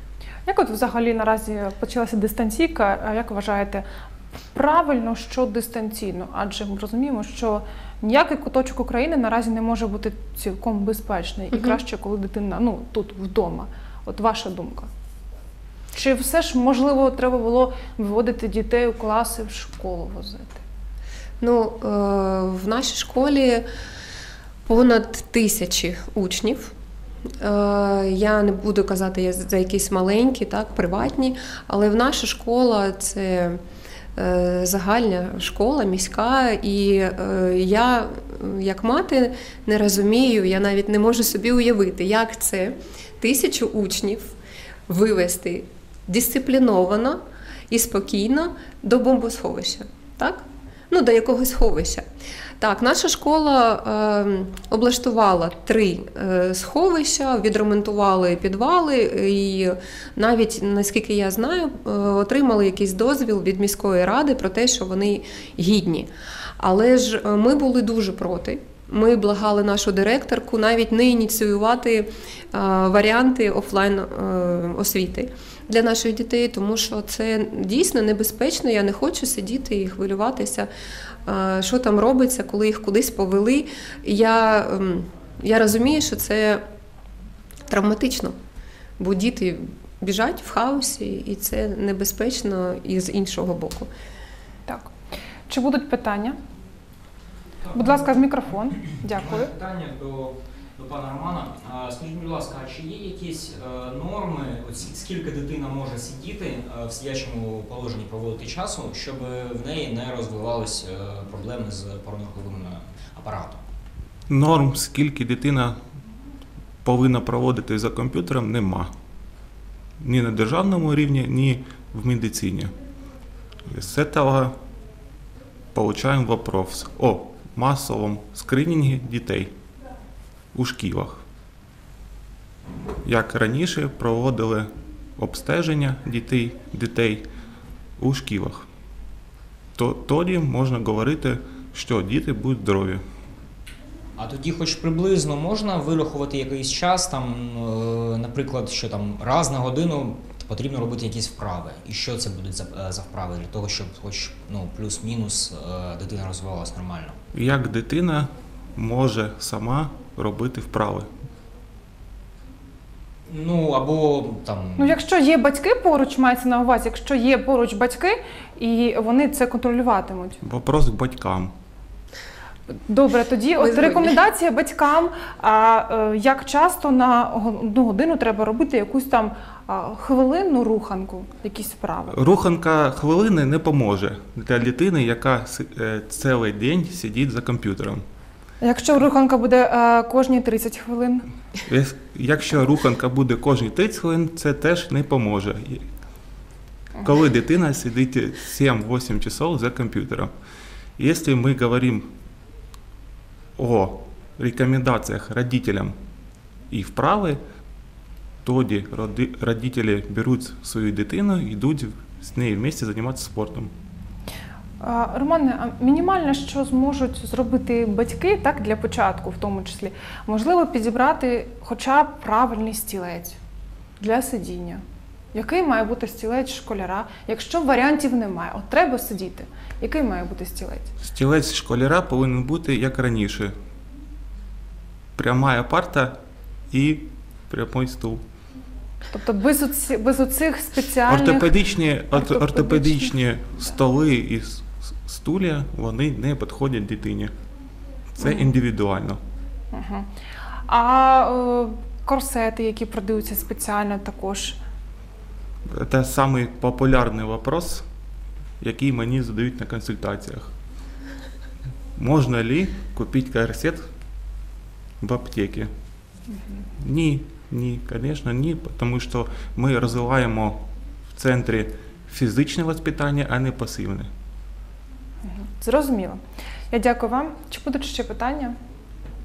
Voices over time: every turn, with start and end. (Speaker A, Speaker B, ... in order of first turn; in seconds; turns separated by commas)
Speaker A: 0.5-3.8, Speaker A: 4.5-14.9, Speaker B: 11.5-11.8, Speaker A: 15.9-20.6, Speaker B: 21.4-23.6, Speaker B: 24.6-26.7, Speaker B: 27.4-33.6, Speaker B: 34.2-44.3, Speaker B: 44.9-47.2, Speaker B: 47.7-52.0, Speaker B: 52.6-80.7, Speaker B: 81.2-86.6, Speaker B: 87.7-88.3, Speaker B: 89.0-93.9, Speaker A: 94.7-94.9, Speaker A: 95.5-96.4, Speaker C: 97.6-98.0, Speaker A: 97.7-99.5, Speaker C: 99.1-113.6, Speaker D: 114.3-115.8, Speaker D: 116.8-118.9, Speaker D: 120.0-122.7, Speaker D: 123.7-124.5, Speaker D: 125.7-129.5, Speaker D: 130.5-131.2, Speaker D: 133.0-137.2, Speaker D: 138.0-138.7, Speaker D: 139.8-143.0, Speaker C: 144.2-157.2, Speaker D: 157.3-161.1, Speaker C: 163.3-165.0, Speaker A: 164.8-170.4, Speaker D: 170.4-171.5, Speaker A: 172.7-182.2, Speaker B: 173.6-174.2, Speaker D: 182.1-188.0, Speaker A: 188.6-191.3, Speaker D: 191.7-195.8, Speaker D: 197.0-200.3, Speaker D: 201.0-202.1, Speaker D: 203.6-205.9, Speaker D: 206.7-207.4, Speaker D: 208.4-213.7, Speaker A: 214.8-223.4, Speaker A: 224.0-224.8, Speaker A: 225.3-230.9, Speaker D: 231.0-233.5, Speaker D: 235.2-236.2, Speaker D: 236.7-238.2, Speaker A: 239.1-241.5, Speaker D: 241.1-247.3, Speaker A: 242.1-243.1, Speaker D: 248.1-249.2, Speaker A: 248.2-248.5, Speaker A: 249.7-250.1, Speaker A: 250.7-254.6, Speaker D: 255.7-257.8, Speaker D: 258.6-260.5, Speaker D: 262.0-263.9, Speaker D: 265.0-265.7, Speaker D: 266.8-274.1, Speaker A: 275.2-278.6